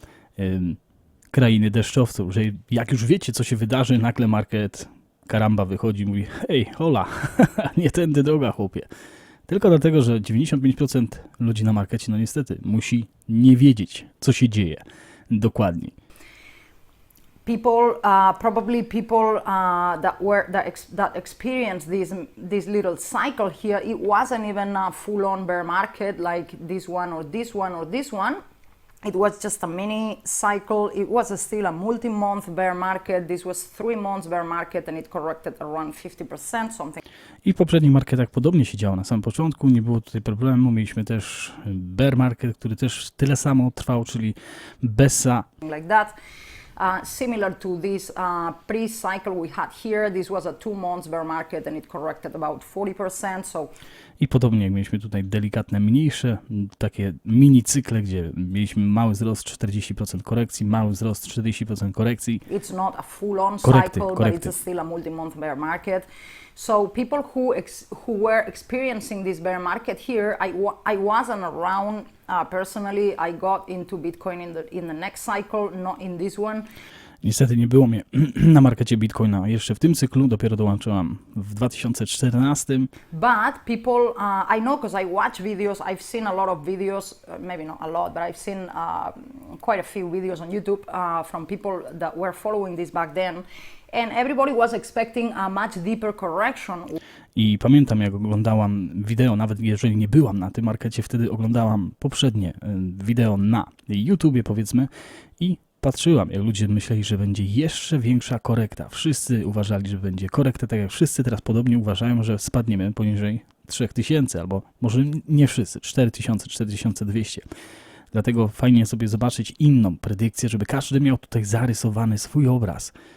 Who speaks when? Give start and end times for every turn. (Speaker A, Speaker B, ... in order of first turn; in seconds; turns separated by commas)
Speaker A: 0.4-0.8, Speaker A: 1.3-8.9, Speaker A: 9.5-15.9, Speaker B: 17.4-28.4, Speaker B: 29.0-37.0, Speaker A: 37.4-45.4, Speaker B: 45.6-46.1, Speaker B: 46.8-53.7, Speaker A: 54.2-62.4, Speaker B: 62.5-76.7, Speaker A: 63.6-64.5, Speaker A: 77.2-82.9, Speaker B: 83.1-97.0, Speaker A: 97.3-117.4, Speaker A: 118.1-122.9